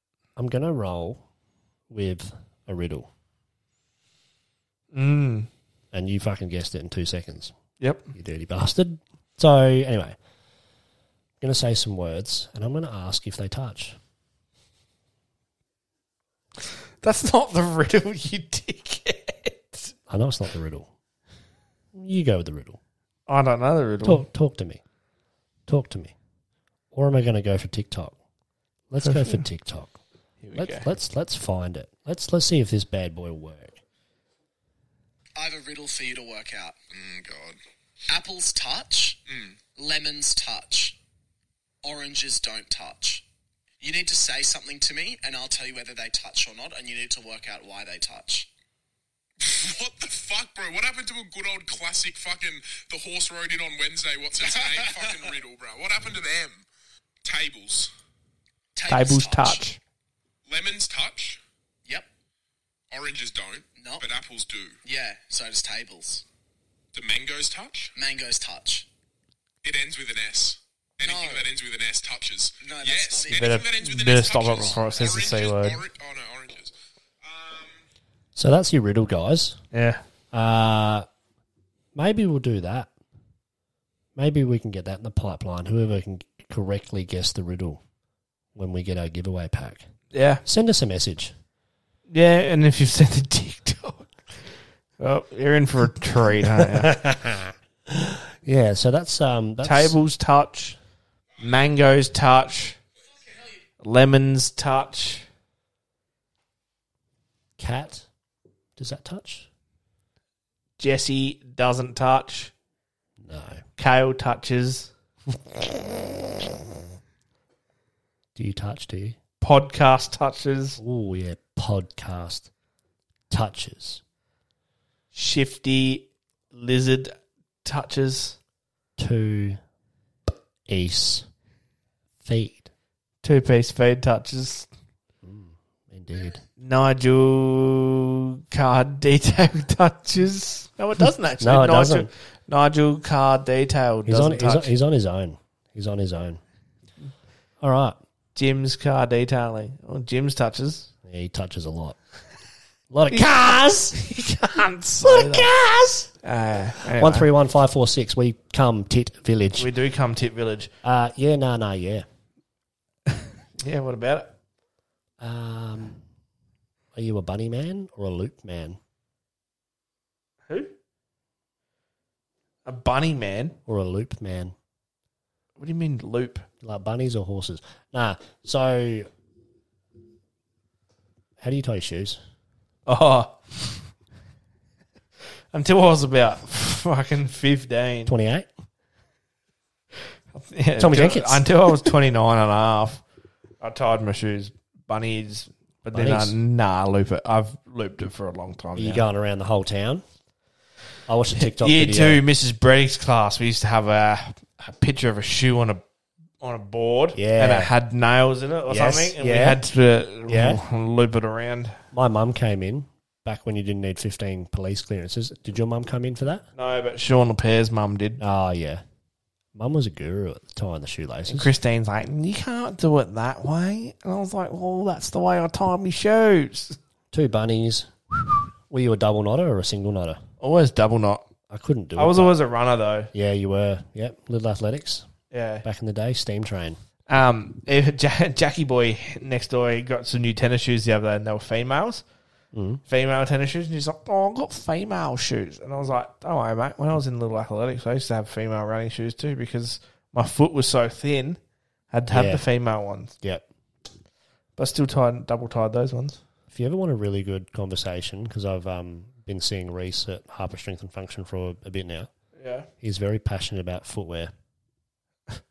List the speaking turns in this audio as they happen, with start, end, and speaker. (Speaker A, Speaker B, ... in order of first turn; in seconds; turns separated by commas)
Speaker A: 0.4-1.2, Speaker A: 1.9-3.1, Speaker B: 4.9-5.5, Speaker A: 5.9-7.5, Speaker B: 7.8-8.1, Speaker A: 8.1-10.2, Speaker A: 11.4-14.0, Speaker B: 17.0-19.9, Speaker A: 20.1-20.9, Speaker A: 21.9-22.8, Speaker B: 23.3-24.3, Speaker A: 24.0-24.8, Speaker A: 25.7-26.1, Speaker A: 26.9-28.2, Speaker A: 28.9-30.0, Speaker B: 29.0-29.4, Speaker B: 30.4-30.9, Speaker A: 30.6-33.8, Speaker C: 35.4-36.8, Speaker D: 36.9-37.6, Speaker C: 38.1-39.2, Speaker D: 39.3-39.6, Speaker C: 39.8-41.0, Speaker C: 41.8-43.2, Speaker C: 43.8-48.5, Speaker D: 49.4-56.6, Speaker C: 54.5-55.2, Speaker D: 57.2-57.9, Speaker C: 58.8-59.6, Speaker B: 58.9-59.8, Speaker D: 60.5-61.4, Speaker D: 62.9-64.8, Speaker C: 63.8-64.0, Speaker C: 64.8-66.2, Speaker D: 66.9-67.9, Speaker C: 68.0-68.9, Speaker D: 69.6-77.8, Speaker C: 71.0-71.5, Speaker C: 72.6-73.5, Speaker B: 73.3-75.8, Speaker A: 78.4-79.6, Speaker B: 79.7-80.0, Speaker A: 80.3-81.1, Speaker A: 82.0-82.9, Speaker A: 84.2-87.8, Speaker A: 88.5-89.9, Speaker B: 90.1-90.4, Speaker A: 90.5-91.3, Speaker B: 92.1-94.1, Speaker B: 95.0-97.0, Speaker A: 96.7-100.0, Speaker B: 99.6-100.8, Speaker B: 101.4-102.8, Speaker B: 103.8-105.2, Speaker A: 107.6-108.1, Speaker A: 108.8-109.5, Speaker B: 110.8-112.5, Speaker A: 113.2-113.6, Speaker B: 113.8-114.9, Speaker A: 118.4-119.2, Speaker B: 119.4-120.8, Speaker A: 120.8-122.5, Speaker A: 123.3-124.0, Speaker B: 125.1-128.4, Speaker A: 129.0-129.6, Speaker A: 130.7-131.3, Speaker A: 132.2-132.7, Speaker B: 133.2-134.7, Speaker A: 135.2-136.4, Speaker B: 136.6-144.7, Speaker A: 141.4-142.1, Speaker A: 144.1-146.4, Speaker A: 147.6-148.0, Speaker B: 148.3-150.9, Speaker A: 151.0-152.0, Speaker A: 152.9-154.0, Speaker B: 153.1-153.4, Speaker B: 153.9-155.5, Speaker A: 155.0-156.1, Speaker B: 156.2-157.3, Speaker A: 156.9-159.7, Speaker B: 159.6-160.7, Speaker A: 160.8-162.1, Speaker B: 163.6-164.3, Speaker A: 165.2-166.0, Speaker A: 166.9-168.8, Speaker B: 172.7-173.6, Speaker A: 173.7-174.5, Speaker B: 175.6-176.5, Speaker A: 176.6-179.1, Speaker A: 181.4-182.2, Speaker B: 182.9-183.4, Speaker B: 185.5-188.1, Speaker A: 188.1-188.5, Speaker B: 190.3-193.0, Speaker A: 190.8-191.9, Speaker B: 193.6-199.1, Speaker A: 195.9-196.3, Speaker A: 198.8-200.0, Speaker A: 201.1-202.2, Speaker B: 201.4-205.8, Speaker B: 206.4-211.8, Speaker A: 207.2-207.7, Speaker A: 208.7-209.6, Speaker A: 210.3-210.6, Speaker A: 211.9-216.4, Speaker B: 216.6-218.2, Speaker A: 218.2-218.8, Speaker A: 219.6-221.5, Speaker B: 221.3-226.8, Speaker A: 227.1-230.2, Speaker B: 230.4-231.2, Speaker A: 231.5-232.4, Speaker B: 232.0-233.1, Speaker A: 233.1-235.1, Speaker B: 235.3-235.7, Speaker A: 235.6-236.8, Speaker B: 237.1-242.0, Speaker A: 242.5-242.8, Speaker B: 242.9-251.4, Speaker B: 251.9-253.1, Speaker A: 252.1-252.4, Speaker B: 254.6-256.2, Speaker A: 256.5-262.1, Speaker B: 262.4-262.7, Speaker A: 262.8-264.3